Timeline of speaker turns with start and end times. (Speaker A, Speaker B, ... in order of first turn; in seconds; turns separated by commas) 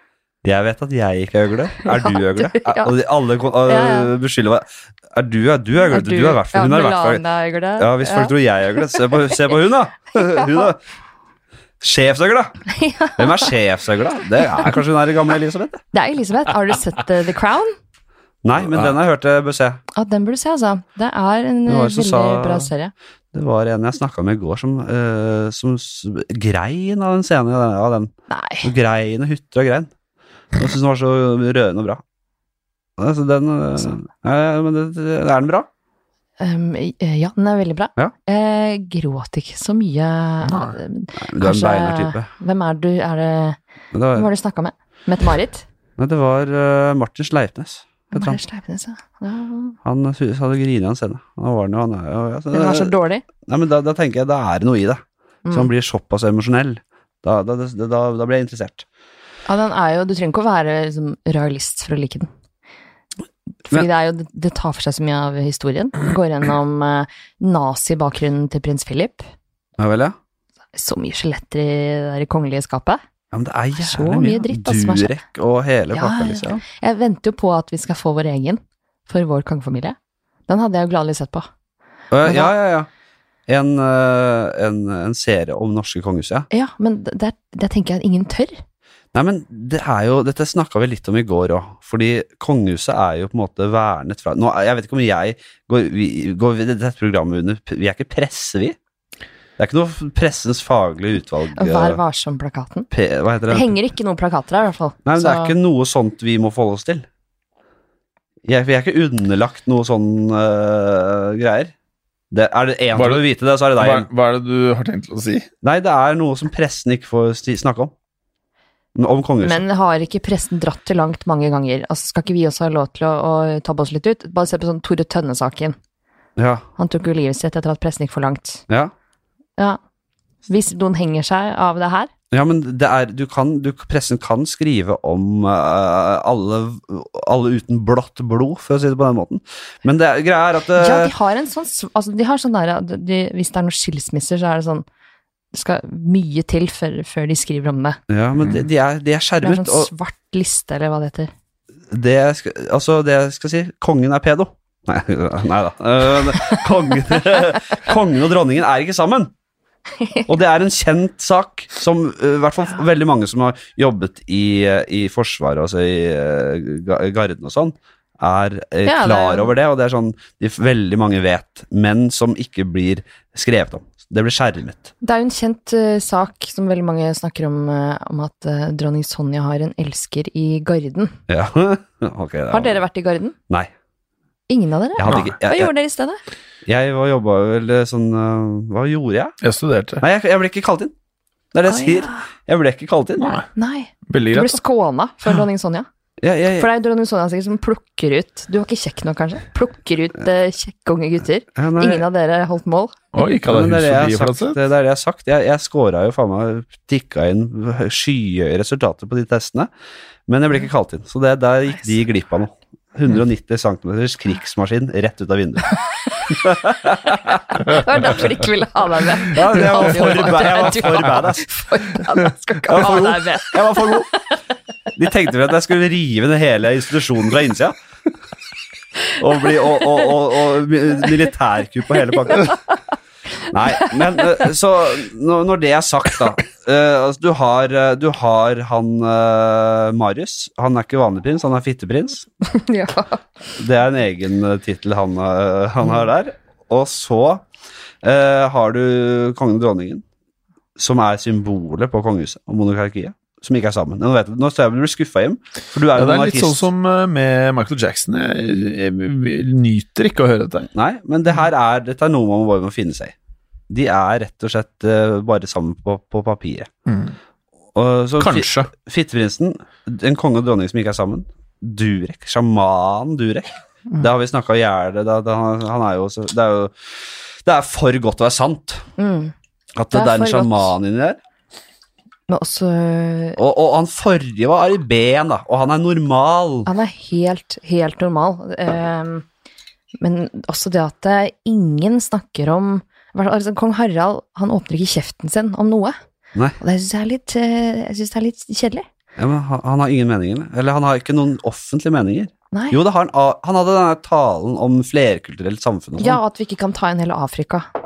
Speaker A: 0.4-7.2, Speaker B: 1.9-3.0, Speaker B: 3.6-4.1, Speaker B: 5.9-8.3, Speaker A: 7.8-10.8, Speaker B: 8.9-9.4, Speaker B: 10.1-10.7, Speaker A: 11.8-12.6, Speaker B: 12.7-13.5, Speaker A: 13.2-15.8, Speaker B: 15.9-17.8, Speaker A: 18.4-19.8, Speaker B: 19.9-22.9, Speaker A: 21.7-22.7, Speaker A: 23.3-29.9, Speaker B: 28.3-28.7, Speaker A: 30.6-32.0, Speaker A: 33.0-35.7, Speaker B: 36.4-43.6, Speaker A: 41.2-42.3, Speaker A: 43.9-44.3, Speaker B: 44.1-45.7, Speaker A: 46.0-48.4, Speaker B: 48.1-49.8, Speaker A: 49.9-58.9, Speaker B: 52.5-53.2, Speaker B: 55.5-55.7, Speaker B: 59.5-62.3, Speaker B: 63.7-69.3, Speaker A: 69.8-70.2, Speaker B: 70.7-73.0, Speaker A: 73.3-76.6, Speaker B: 73.8-75.2, Speaker B: 75.9-80.0, Speaker B: 80.5-81.5, Speaker A: 82.1-82.9, Speaker B: 82.2-82.5, Speaker A: 83.5-86.5, Speaker B: 86.5-88.6, Speaker A: 89.1-98.8, Speaker A: 99.6-102.0, Speaker B: 101.6-102.9, Speaker A: 102.9-103.8, Speaker B: 103.5-105.6, Speaker A: 105.1-107.1, Speaker A: 108.5-111.7, Speaker A: 112.3-114.1, Speaker C: 113.0-113.2, Speaker C: 113.8-115.5, Speaker A: 115.6-117.9, Speaker A: 119.0-119.6, Speaker B: 119.4-125.8, Speaker A: 126.4-126.7, Speaker B: 126.8-128.6, Speaker B: 130.5-132.1, Speaker A: 132.3-141.1, Speaker B: 140.8-144.8, Speaker B: 145.5-148.0, Speaker A: 148.1-149.9, Speaker B: 149.4-151.3, Speaker A: 151.9-159.3, Speaker B: 160.0-160.3, Speaker A: 160.3-174.9, Speaker B: 168.8-169.5, Speaker B: 175.0-181.2, Speaker A: 181.3-182.8, Speaker B: 182.5-183.3, Speaker B: 184.5-186.2, Speaker A: 185.0-185.7, Speaker A: 186.7-189.3, Speaker C: 189.4-190.0, Speaker A: 190.0-190.9, Speaker A: 191.5-193.4, Speaker B: 191.7-192.3, Speaker C: 193.2-193.5, Speaker B: 193.6-195.9, Speaker C: 194.1-194.6, Speaker A: 196.2-196.7, Speaker B: 196.6-203.0, Speaker A: 201.6-202.1, Speaker C: 203.1-204.6, Speaker A: 203.5-209.7, Speaker A: 210.3-215.7, Speaker B: 216.1-216.3, Speaker A: 216.3-218.1, Speaker B: 217.5-224.1, Speaker A: 219.2-221.5, Speaker A: 222.7-224.1, Speaker A: 224.9-227.8, Speaker A: 229.2-232.6, Speaker B: 232.3-232.6, Speaker A: 233.5-242.3, Speaker B: 242.4-243.2, Speaker A: 243.6-247.4, Speaker A: 248.0-250.0, Speaker A: 250.8-256.7, Speaker C: 255.9-260.7, Speaker A: 260.7-263.1, Speaker A: 263.7-266.7, Speaker C: 266.9-267.2, Speaker A: 267.8-276.8, Speaker C: 268.2-268.7, Speaker A: 277.4-278.9, Speaker B: 279.0-279.3, Speaker A: 279.8-281.2, Speaker B: 279.9-280.8, Speaker B: 282.3-283.4, Speaker A: 283.4-286.7, Speaker B: 286.7-289.3, Speaker B: 290.0-296.0, Speaker B: 296.6-298.9, Speaker A: 299.2-306.2, Speaker B: 302.5-302.8, Speaker B: 306.0-307.7